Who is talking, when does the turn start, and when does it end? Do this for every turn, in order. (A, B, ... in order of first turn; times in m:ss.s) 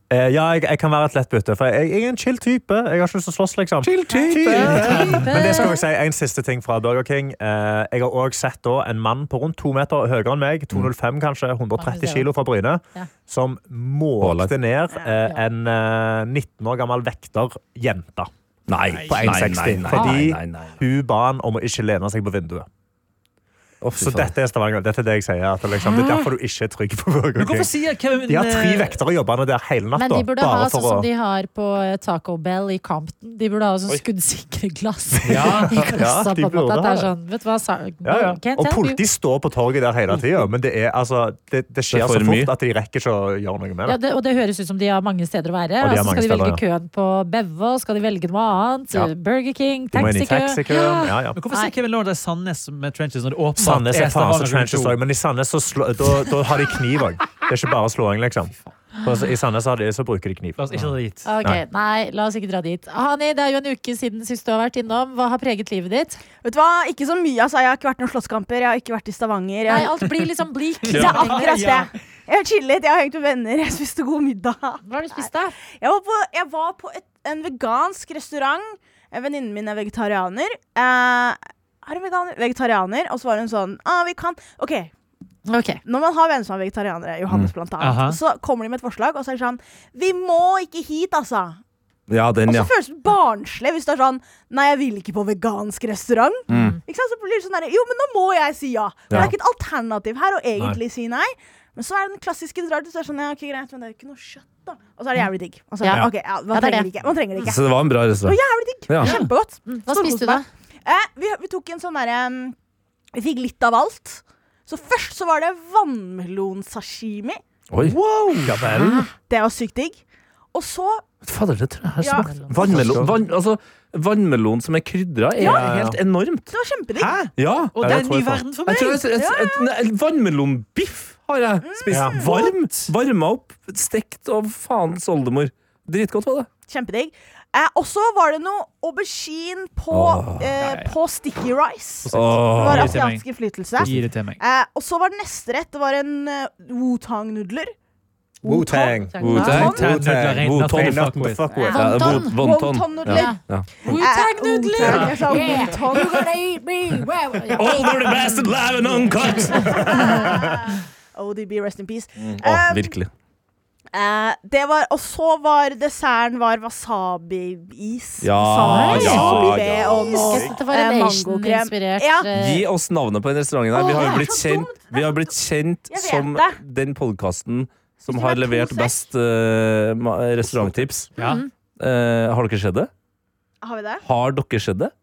0:00.1-0:18.3 A
0:03.8-0:05.6 B
0:04.1-0:05.8 C
0:11.8-0:12.3 C
0:14.2-0:14.5 B
0:14.9-0:15.2 D
0:18.7-0:20.8 B
0:18.9-0:19.4 E
0:19.1-0:22.7 A
0:19.9-0:20.3 C
0:23.8-0:24.3 B
0:24.0-0:31.1 A
0:27.4-0:29.0 E
0:30.0-0:39.0 C
0:35.2-0:37.1 A
0:35.3-0:35.9 E
0:38.0-0:44.0 A
0:41.9-0:42.5 B
0:43.9-0:51.7 C
0:45.8-0:46.6 A
0:49.9-0:51.4 A
0:51.3-0:55.0 E
0:53.6-1:01.6 A
1:00.6-1:01.3 E
1:01.2-1:06.2 C
1:06.4-1:09.9 D
1:09.7-1:11.8 C
1:10.9-1:11.2 B
1:10.9-1:11.9 E
1:11.0-1:14.8 D
1:14.8-1:15.6 C
1:15.7-1:24.9 D
1:25.5-1:25.8 C
1:25.8-1:31.6 D
1:27.8-1:28.2 E
1:32.1-1:32.7 B
1:32.4-1:52.6 D
1:36.5-1:36.8 C
1:36.5-1:36.8 B
1:45.8-1:46.9 C
1:47.4-1:49.2 B
1:49.0-1:50.4 C
1:53.1-1:57.4 D
1:57.7-1:59.0 B
1:57.8-1:59.0 A
1:59.2-2:00.0 D
2:00.5-2:01.1 D
2:01.2-2:06.5 B
2:02.0-2:02.3 D
2:02.1-2:02.7 C
2:02.6-2:03.1 A
2:05.4-2:05.7 D
2:05.4-2:06.0 A
2:06.5-2:07.2 D
2:07.0-2:09.0 E
2:07.4-2:08.1 B
2:07.8-2:08.4 A
2:08.7-2:16.5 B
2:09.1-2:09.7 D
2:11.6-2:12.4 D
2:11.9-2:12.2 A
2:12.1-2:12.9 E
2:16.7-2:27.7 D
2:19.9-2:20.5 B
2:20.6-2:21.0 E
2:22.0-2:24.4 E
2:22.1-2:23.0 B
2:28.4-2:29.9 D
2:28.4-2:32.1 A
2:29.1-2:29.6 C
2:29.2-2:29.9 B
2:29.4-2:31.4 E
2:30.4-2:33.9 B
2:31.5-2:36.5 D
2:31.7-2:32.4 C
2:33.0-2:38.5 C
2:34.8-2:35.7 E
2:37.0-2:38.2 D
2:37.6-2:40.2 B
2:38.9-2:43.0 D
2:39.2-2:40.0 C
2:39.7-2:40.5 A
2:42.2-2:43.1 B
2:43.9-2:52.3 D
2:48.2-2:50.5 B
2:48.6-2:49.3 C
2:49.1-2:50.5 A
2:50.0-2:52.7 C
2:52.3-3:01.1 B
2:53.7-2:55.3 D
2:55.9-2:56.6 D
2:58.1-2:59.1 D
3:00.4-3:01.1 A
3:01.2-3:01.5 C
3:01.8-3:02.9 B
3:03.6-3:04.0 D
3:04.0-3:04.9 B